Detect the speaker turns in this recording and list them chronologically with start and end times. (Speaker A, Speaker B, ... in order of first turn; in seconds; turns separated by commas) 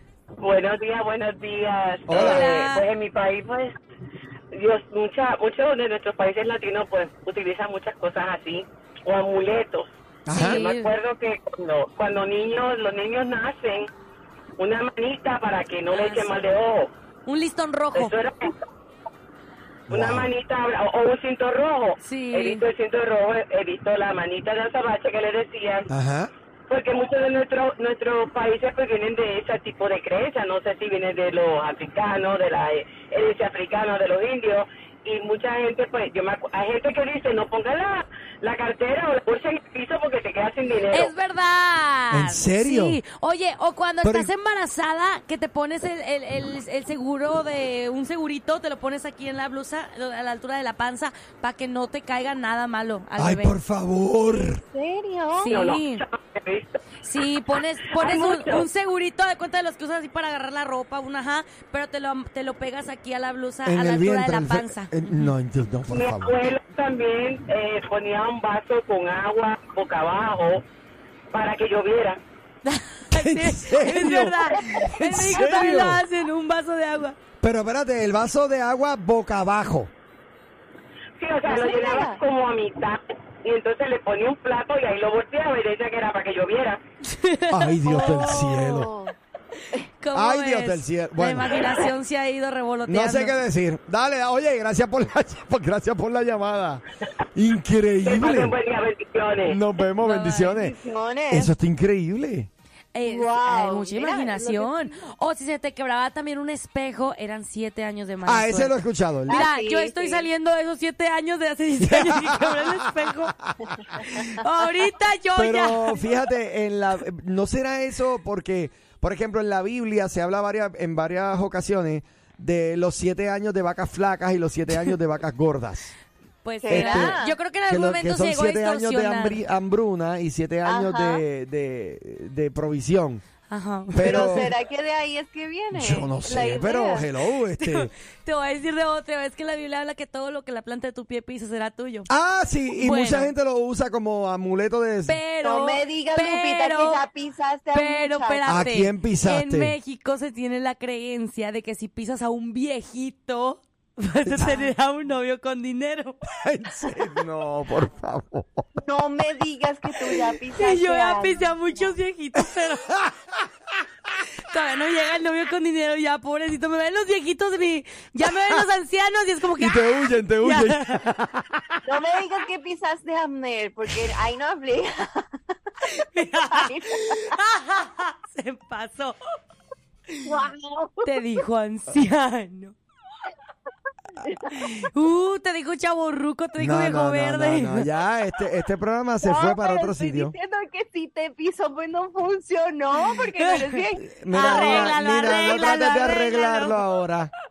Speaker A: 0.4-3.7, Speaker B: 2.1-2.5, Speaker C: 2.1-2.9, Speaker A: 4.5-13.9, Speaker B: 10.2-10.6, Speaker C: 10.3-10.9, Speaker A: 14.6-16.9, Speaker C: 15.9-16.4, Speaker C: 17.2-18.1, Speaker A: 17.9-18.4, Speaker B: 19.9-20.3, Speaker A: 19.9-25.9, Speaker C: 22.0-22.6, Speaker B: 25.9-26.3, Speaker A: 26.7-41.1, Speaker C: 40.9-53.5, Speaker B: 42.1-43.0, Speaker B: 44.0-44.3, Speaker B: 53.2-54.6, Speaker D: 54.3-55.6, Speaker C: 55.4-56.0, Speaker A: 55.5-56.7, Speaker C: 57.0-65.3, Speaker A: 58.0-58.6, Speaker B: 63.6-66.4, Speaker A: 65.9-70.6, Speaker A: 71.3-72.2, Speaker C: 72.6-77.2, Speaker B: 73.1-76.0, Speaker D: 75.3-75.8, Speaker B: 77.4-79.9, Speaker A: 81.2-86.8, Speaker D: 81.5-82.2, Speaker C: 87.0-88.1, Speaker B: 87.5-88.9, Speaker D: 87.8-89.2, Speaker C: 90.0-93.3, Speaker B: 90.1-91.5, Speaker B: 92.8-96.8, Speaker B: 97.3-98.5, Speaker A: 98.0-99.6, Speaker B: 99.4-100.8, Speaker C: 100.0-100.5, Speaker D: 100.5-101.5, Speaker B: 101.3-102.5, Speaker C: 102.9-108.8, Speaker D: 103.0-104.9, Speaker B: 108.2-109.4, Speaker D: 109.3-110.3, Speaker C: 109.3-113.3, Speaker B: 111.8-112.9, Speaker C: 114.0-116.0, Speaker B: 115.3-125.9, Speaker C: 126.4-129.4, Speaker D: 126.6-127.4, Speaker B: 126.7-133.2, Speaker D: 130.6-131.2, Speaker C: 133.5-134.5, Speaker B: 133.9-134.5, Speaker D: 134.0-137.1, Speaker B: 135.7-137.9, Speaker C: 137.6-142.1, Speaker B: 142.1-145.2, Speaker C: 142.7-143.3, Speaker C: 145.1-147.0, Speaker D: 145.4-148.7, Speaker C: 147.7-156.2, Speaker B: 148.4-149.7, Speaker B: 154.2-154.6, Speaker B: 156.2-158.6, Speaker D: 158.8-161.9, Speaker C: 160.6-163.0, Speaker C: 164.4-169.8, Speaker B: 169.6-171.8, Speaker C: 170.4-171.0, Speaker D: 171.9-175.3, Speaker C: 175.8-179.2, Speaker D: 176.3-177.2, Speaker D: 180.2-181.2, Speaker C: 181.0-182.7, Speaker C: 184.5-187.9, Speaker B: 186.6-190.3, Speaker D: 189.2-195.0, Speaker B: 194.0-197.3, Speaker C: 194.3-196.8